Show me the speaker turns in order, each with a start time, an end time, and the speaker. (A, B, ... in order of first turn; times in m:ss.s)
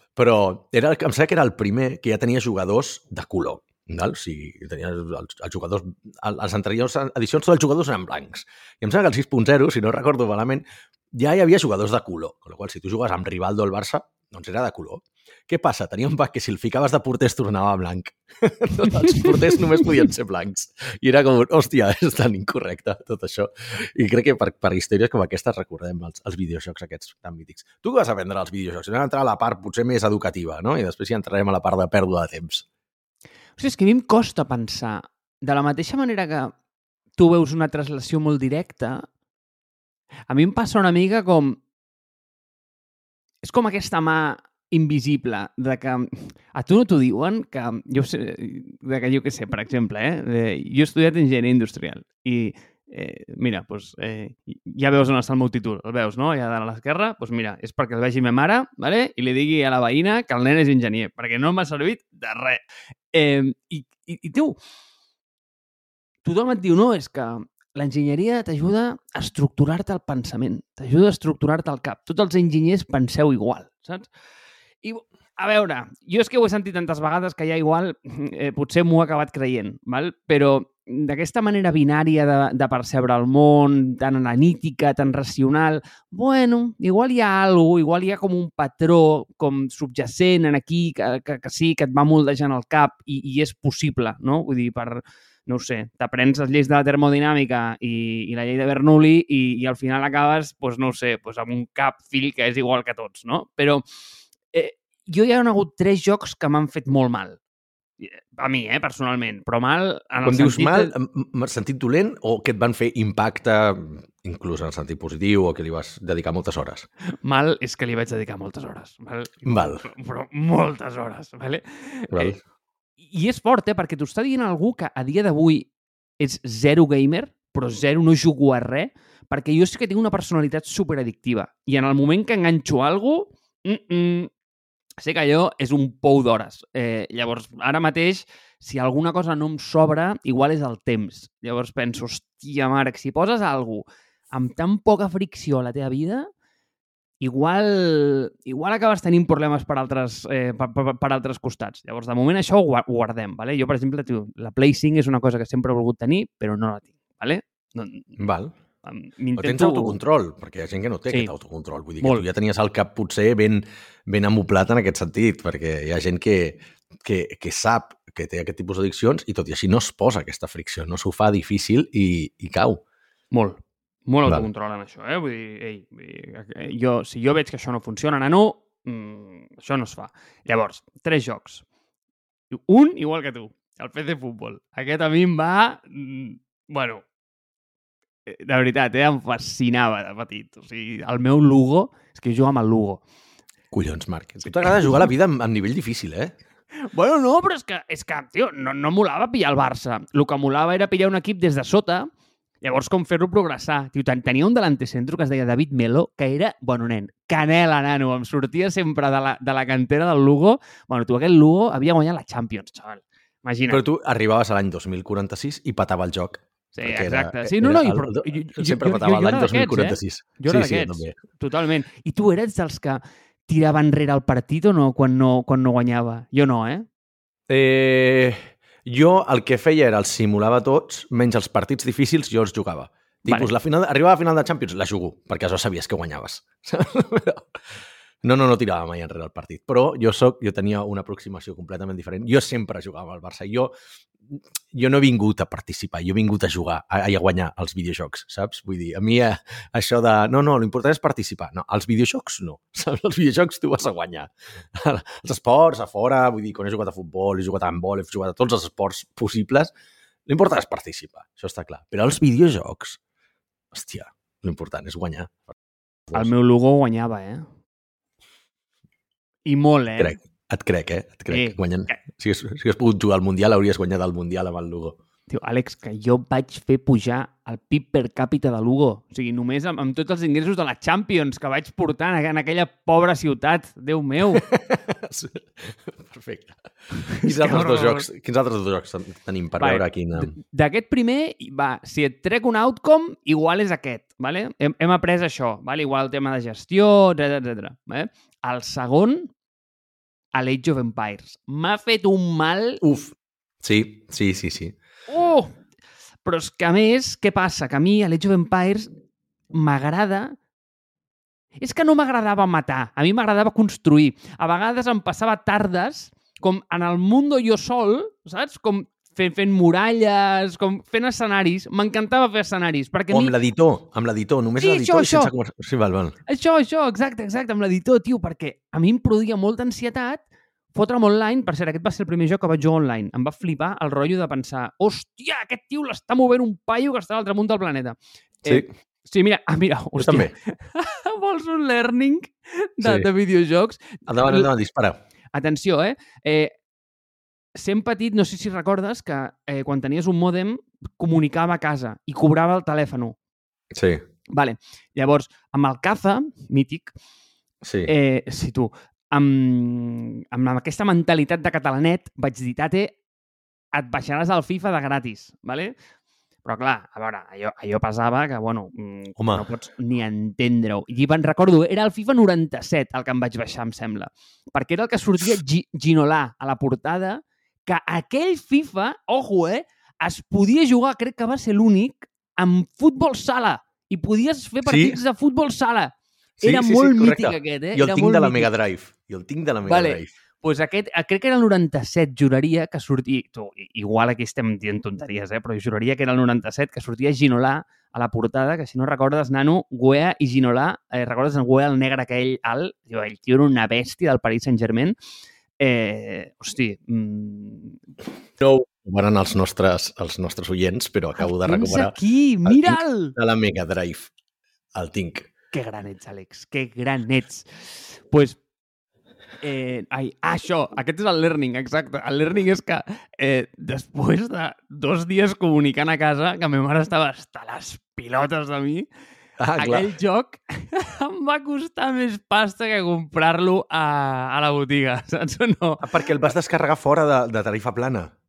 0:00.1-0:32.6 A
0:19.0-0:19.4 B
0:33.6-0:36.5 B
0:37.2-0:39.1 B
0:40.3-0:41.6 B
0:43.4-1:04.6 B
1:06.2-1:14.1 B
1:14.8-1:43.8 B
1:44.5-1:47.4 B
1:48.0-1:50.9 B
1:50.2-1:56.9 A
1:57.2-2:02.4 B
1:59.4-1:59.8 A
2:02.1-2:02.4 A
2:03.0-2:14.3 B
2:15.0-2:26.3 B
2:27.2-2:38.1 B
2:38.2-2:38.5 A
2:38.8-2:40.0 B
2:39.4-2:52.8 A
2:42.0-2:42.2 B
2:53.3-3:01.6 B
3:02.5-3:07.0 B
3:08.2-3:13.0 B
3:13.7-3:16.3 A
3:14.4-3:15.1 B
3:16.9-3:22.1 B
3:22.6-3:33.8 B
3:33.7-3:41.2 A
3:36.7-3:46.8 B
3:47.5-3:57.4 A
3:53.2-3:53.5 B
3:58.2-4:03.7 A
4:04.3-4:19.7 A
4:20.3-4:23.0 A
4:23.7-4:25.5 A
4:26.1-4:27.4 B
4:29.4-4:30.2 B
4:30.0-4:35.0 A
4:31.3-4:32.0 B
4:35.3-4:44.5 B
4:44.3-4:46.6 A
4:47.1-4:48.0 B
4:47.2-4:50.3 A
4:49.6-4:59.3 B
5:00.3-5:02.8 B
5:02.8-5:04.8 A
5:05.1-5:05.6 B
5:06.2-5:08.9 B
5:09.5-5:10.4 B
5:11.6-5:23.4 B
5:23.1-5:26.2 A
5:24.6-5:25.3 B
5:26.3-5:30.2 B
5:30.7-5:44.5 B
5:40.0-5:40.3 A
5:42.8-5:43.1 A
5:44.1-5:45.0 A
5:45.3-5:46.5 B
5:47.6-5:53.2 B
5:53.7-5:54.0 A
5:54.3-5:56.9 B
5:57.6-5:57.9 A
5:57.8-6:03.0 B
6:03.7-6:05.7 B
6:06.4-6:28.5 B
6:09.2-6:09.4 A
6:24.6-6:25.0 A
6:26.4-6:30.1 A
6:29.6-6:45.0 B
6:45.6-6:47.8 B
6:48.4-6:54.1 A
6:51.2-6:53.2 B
6:54.7-6:55.3 A
6:55.5-6:58.4 B
6:59.4-7:08.9 B
7:09.4-7:09.9 A
7:09.6-7:16.3 B
7:15.8-7:18.1 A